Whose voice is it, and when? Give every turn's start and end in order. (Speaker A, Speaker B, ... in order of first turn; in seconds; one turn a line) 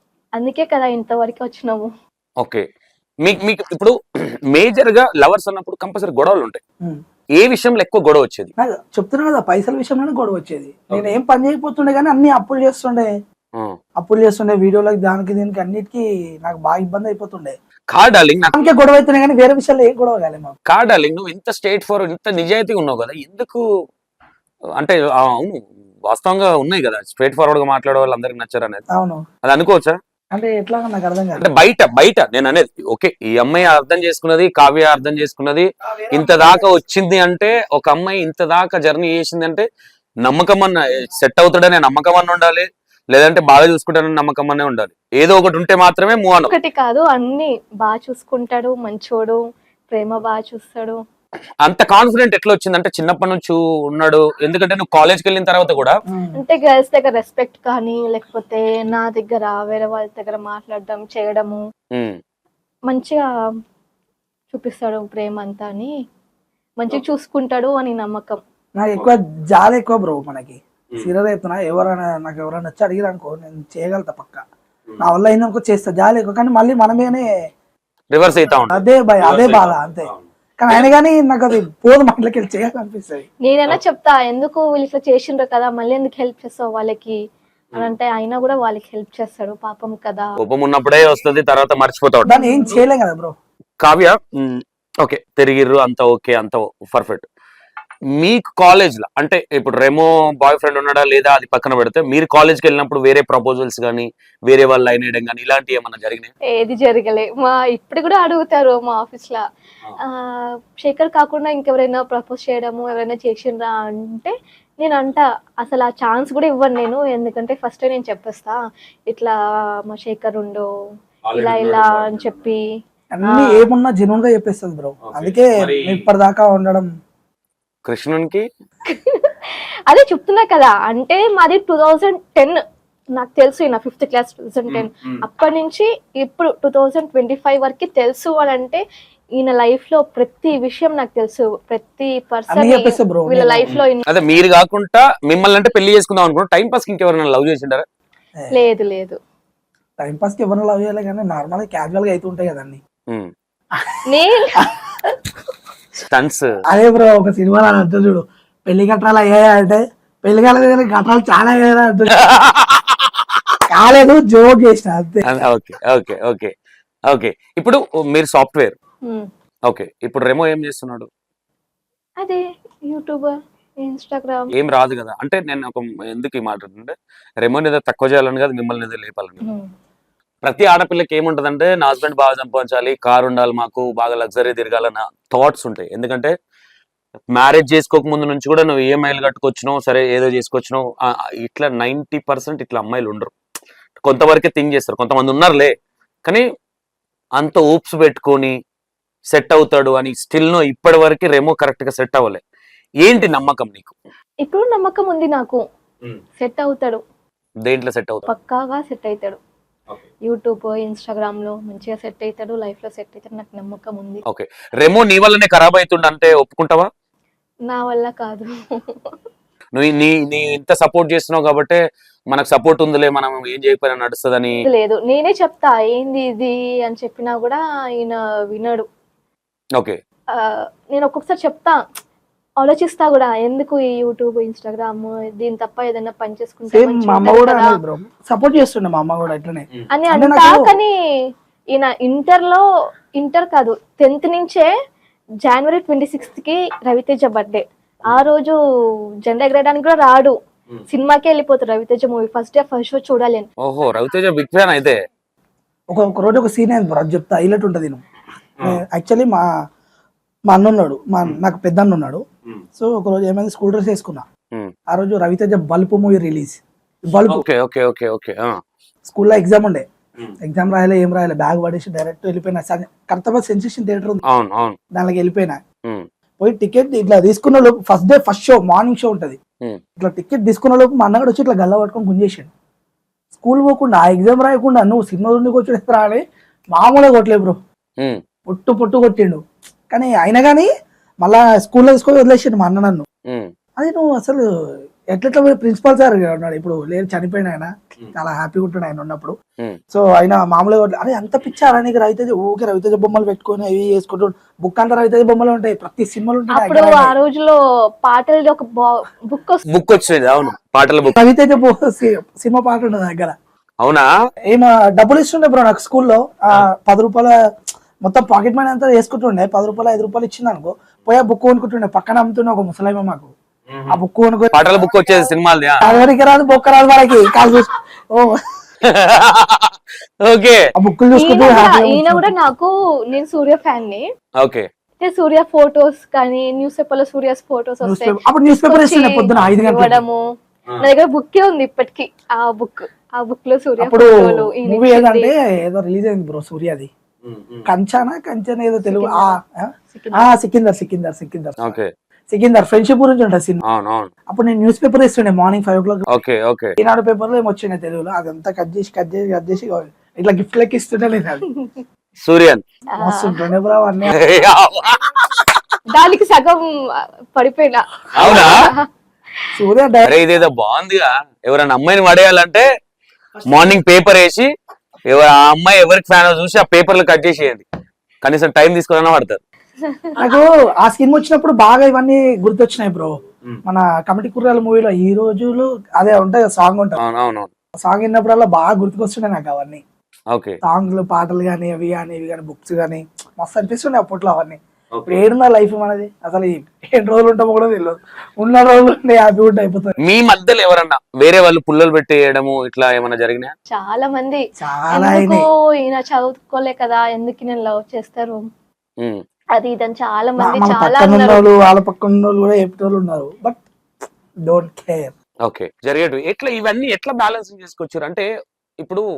Speaker A: 0.4-1.9
Speaker B: 3.2-3.9
Speaker B: 4.5-6.6
Speaker B: 7.4-8.5
Speaker C: 8.6-13.1
Speaker C: 14.0-17.5
Speaker B: 17.9-18.6
Speaker C: 18.5-20.5
Speaker B: 20.7-23.6
Speaker B: 24.8-28.8
Speaker C: 28.9-29.2
Speaker B: 29.4-29.9
Speaker C: 30.3-31.4
Speaker B: 31.4-39.6
Speaker C: 36.3-36.6
Speaker B: 40.2-46.5
Speaker A: 46.5-49.4
Speaker A: 49.9-51.0
Speaker B: 51.6-56.0
Speaker C: 56.1-56.4
Speaker A: 56.3-61.6
Speaker A: 62.9-63.2
Speaker A: 64.5-65.9
Speaker A: 66.8-68.4
Speaker C: 68.8-74.4
Speaker C: 75.0-77.3
Speaker B: 78.1-80.8
Speaker C: 78.7-83.2
Speaker A: 83.5-87.2
Speaker A: 87.8-90.3
Speaker B: 90.4-92.3
Speaker C: 92.2-93.3
Speaker A: 92.3-92.8
Speaker B: 93.8-97.2
Speaker B: 98.2-106.3
Speaker A: 106.5-109.4
Speaker A: 110.0-118.6
Speaker A: 119.1-120.7
Speaker B: 121.2-122.5
Speaker A: 121.3-122.6
Speaker C: 123.1-126.9
Speaker A: 123.3-123.7
Speaker B: 125.0-126.0
Speaker B: 127.8-128.4
Speaker A: 128.9-132.6
Speaker A: 133.2-138.8
Speaker B: 134.7-135.2
Speaker A: 139.4-144.0
Speaker C: 142.5-143.8
Speaker B: 143.7-147.8
Speaker A: 148.5-149.2
Speaker C: 150.0-152.8
Speaker A: 154.1-154.6
Speaker C: 154.6-155.1
Speaker B: 156.1-156.5
Speaker C: 156.7-162.3
Speaker B: 162.1-163.1
Speaker C: 163.7-165.2
Speaker B: 165.2-166.5
Speaker B: 167.1-168.8
Speaker B: 169.7-171.1
Speaker A: 172.2-174.5
Speaker B: 174.5-179.4
Speaker B: 180.4-186.3
Speaker B: 187.3-193.3
Speaker B: 194.0-195.7
Speaker B: 197.4-198.5
Speaker B: 199.3-202.4
Speaker B: 203.0-203.9
Speaker A: 204.4-205.6
Speaker A: 206.4-207.0
Speaker B: 207.7-208.3
Speaker A: 208.3-209.4
Speaker A: 210.3-214.2
Speaker B: 214.3-216.9
Speaker A: 217.7-219.1
Speaker B: 219.7-221.8
Speaker B: 222.3-224.6
Speaker A: 224.6-228.8
Speaker A: 230.3-231.8
Speaker A: 232.6-237.8
Speaker C: 236.7-240.7
Speaker A: 239.9-240.9
Speaker A: 241.7-242.6
Speaker A: 243.2-244.7
Speaker A: 245.4-248.6
Speaker A: 249.2-250.3
Speaker A: 250.9-253.5
Speaker B: 253.6-255.0
Speaker C: 255.9-258.0
Speaker C: 258.6-259.4
Speaker C: 260.5-262.2
Speaker C: 262.8-264.2
Speaker C: 264.9-267.4
Speaker B: 267.3-268.6
Speaker C: 269.1-269.8
Speaker C: 270.4-274.2
Speaker B: 274.3-274.8
Speaker C: 274.9-275.6
Speaker C: 276.4-279.4
Speaker C: 280.0-282.5
Speaker C: 283.3-286.2
Speaker C: 286.7-287.6
Speaker C: 288.5-290.7
Speaker C: 291.2-293.1
Speaker C: 293.8-294.5
Speaker C: 295.1-299.3
Speaker C: 299.9-307.1
Speaker A: 306.5-309.6
Speaker B: 309.7-311.1
Speaker C: 311.1-313.3
Speaker B: 313.8-314.1
Speaker C: 314.5-317.3
Speaker C: 318.0-323.3
Speaker B: 323.7-324.0
Speaker C: 323.9-324.6
Speaker B: 324.5-325.8
Speaker C: 325.8-328.4
Speaker B: 328.9-330.6
Speaker C: 330.7-332.3
Speaker A: 331.2-334.0
Speaker B: 334.4-334.6
Speaker A: 335.0-340.2
Speaker C: 337.8-340.0
Speaker A: 340.8-345.3
Speaker C: 343.8-346.9
Speaker B: 347.2-347.7
Speaker C: 347.6-351.8
Speaker A: 348.8-349.3
Speaker A: 349.9-350.3
Speaker B: 351.6-351.9
Speaker C: 352.3-353.6
Speaker B: 353.6-354.1
Speaker C: 354.3-356.0
Speaker B: 356.1-356.8
Speaker C: 356.8-361.4
Speaker B: 362.2-362.6
Speaker A: 363.0-363.4
Speaker C: 363.0-364.1
Speaker B: 364.1-365.6
Speaker A: 365.9-366.6
Speaker A: 367.3-368.9
Speaker B: 368.1-368.5
Speaker C: 368.2-368.5
Speaker C: 369.5-370.1
Speaker B: 370.0-372.6
Speaker B: 373.5-374.5
Speaker B: 375.1-377.6
Speaker B: 378.2-379.4
Speaker C: 380.2-387.0
Speaker B: 387.0-387.5
Speaker C: 387.8-389.8
Speaker B: 390.3-390.6
Speaker C: 390.6-399.9
Speaker B: 394.9-395.2
Speaker B: 400.0-403.5
Speaker A: 403.7-404.4
Speaker C: 404.6-405.4
Speaker A: 404.9-408.4
Speaker A: 409.5-411.4
Speaker C: 410.4-413.6
Speaker C: 414.4-415.1
Speaker B: 415.4-418.2